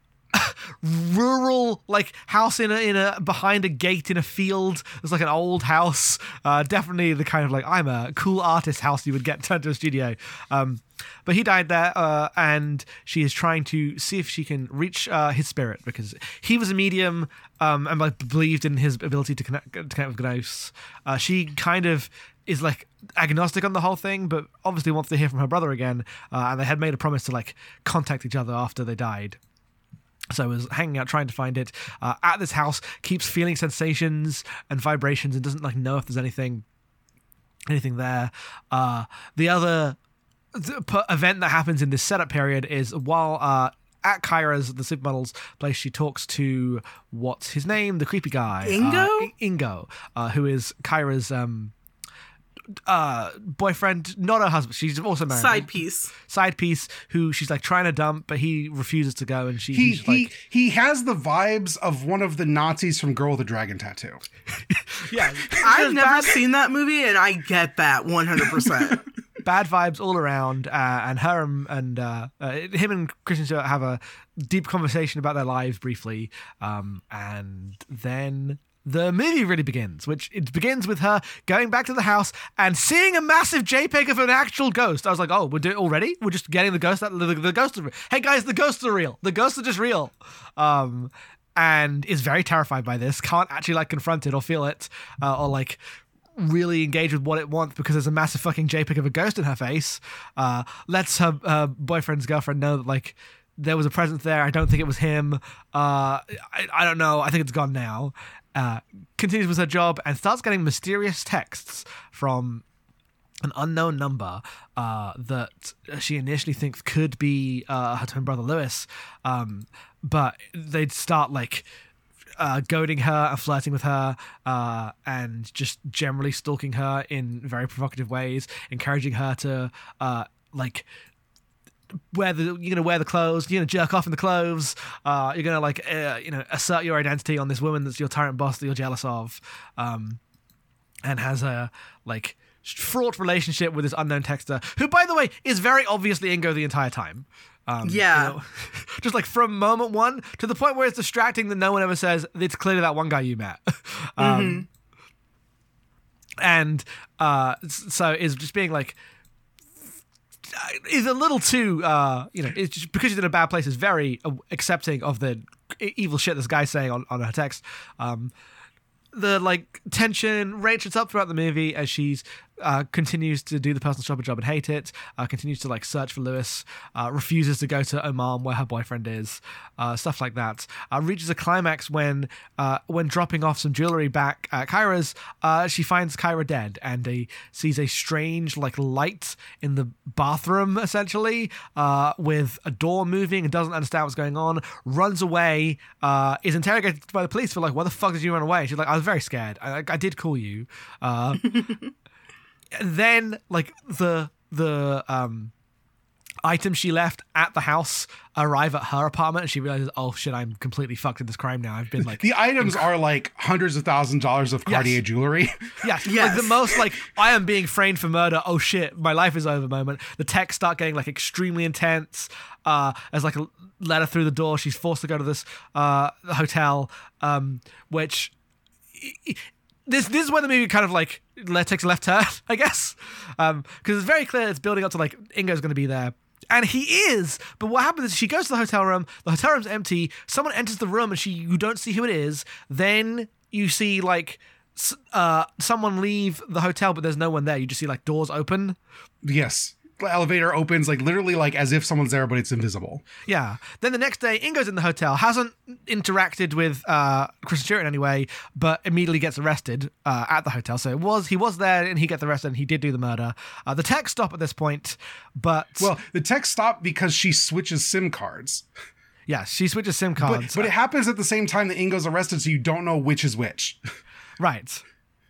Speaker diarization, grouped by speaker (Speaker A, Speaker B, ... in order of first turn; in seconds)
Speaker A: 0.3-29.4, 30.3-36.6, 37.7-40.0, 40.5-51.7, 52.9-60.3, 64.7-66.4, 69.4-95.8, 96.3-112.6, 113.4-121.7, 122.4-130.9, 132.1-140.2, 141.1-154.7, 156.4-159.0, 160.5-168.3, 169.1-201.6, 202.7-205.5, 206.4-212.8, 214.7-215.0, 215.8-228.3, 229.0-248.8, 253.3-265.9, 269.3-270.7, 274.4-274.8
Speaker B: 48.7-49.3, 55.3-56.1, 65.6-69.0, 147.8-148.3, 154.2-154.7, 216.1-216.7
Speaker C: 59.7-64.2, 212.2-215.6, 249.2-253.1, 265.8-268.7, 270.2-273.8